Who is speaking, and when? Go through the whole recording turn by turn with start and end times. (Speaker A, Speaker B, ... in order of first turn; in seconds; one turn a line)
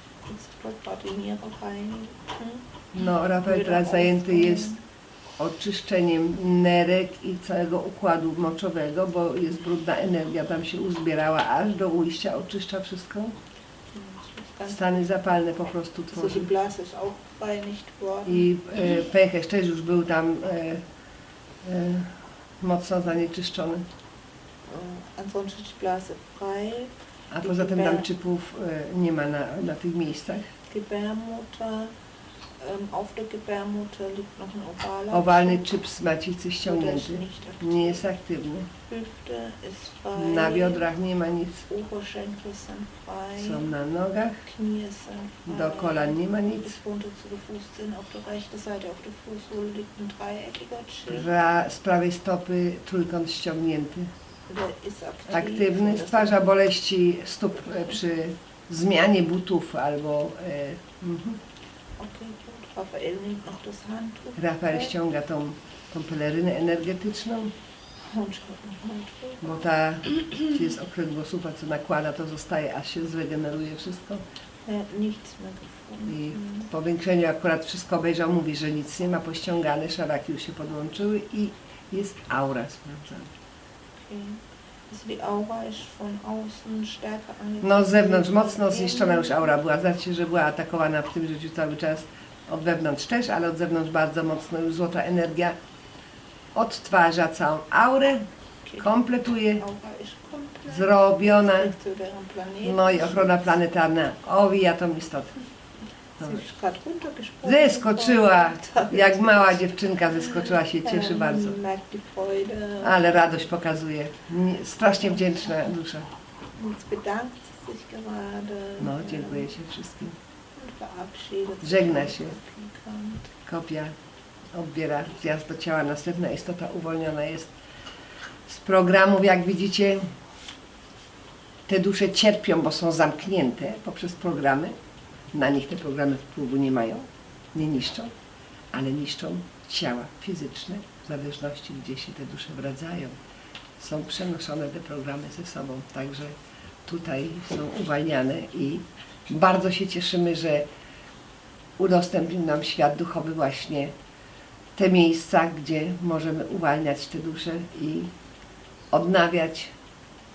Speaker A: 0.3-4.8
Speaker B: 2.9-4.7
Speaker B: 5.4-13.3
Speaker A: 13.9-15.0
Speaker B: 14.7-16.5
Speaker A: 16.1-18.5
Speaker B: 18.2-20.8
Speaker B: 21.6-23.8
Speaker A: 24.6-28.1
Speaker B: 27.3-30.5
Speaker A: 30.7-31.9
Speaker A: 32.6-35.6
Speaker B: 35.1-38.7
Speaker A: 36.6-38.0
Speaker A: 38.9-40.9
Speaker B: 40.1-41.7
Speaker A: 41.7-43.7
Speaker B: 43.4-44.4
Speaker A: 44.4-51.3
Speaker B: 45.5-46.8
Speaker B: 51.1-54.1
Speaker A: 54.5-56.5
Speaker B: 55.3-61.4
Speaker A: 62.0-64.9
Speaker B: 64.4-67.5
Speaker A: 68.1-70.5
Speaker B: 69.4-74.2
Speaker A: 74.6-76.7
Speaker B: 76.1-83.3
Speaker A: 84.0-89.5
Speaker B: 87.6-95.5
Speaker B: 96.5-98.3
Speaker B: 98.8-99.6
Speaker A: 99.4-103.6
Speaker B: 100.7-101.7
Speaker B: 102.6-105.3
Speaker B: 106.2-106.4
Speaker A: 106.2-109.6
Speaker B: 107.4-111.6
Speaker A: 110.1-113.4
Speaker B: 112.8-116.1
Speaker A: 116.6-119.5
Speaker B: 118.8-120.2
Speaker A: 120.5-123.3
Speaker B: 121.6-122.3
Speaker B: 123.5-123.9
Speaker B: 124.5-127.5
Speaker B: 128.5-130.0
Speaker B: 131.7-134.8
Speaker B: 135.3-138.1
Speaker B: 138.7-143.1
Speaker B: 143.8-146.3
Speaker B: 146.8-150.7
Speaker B: 151.8-153.9
Speaker B: 154.8-158.1
Speaker B: 158.9-159.7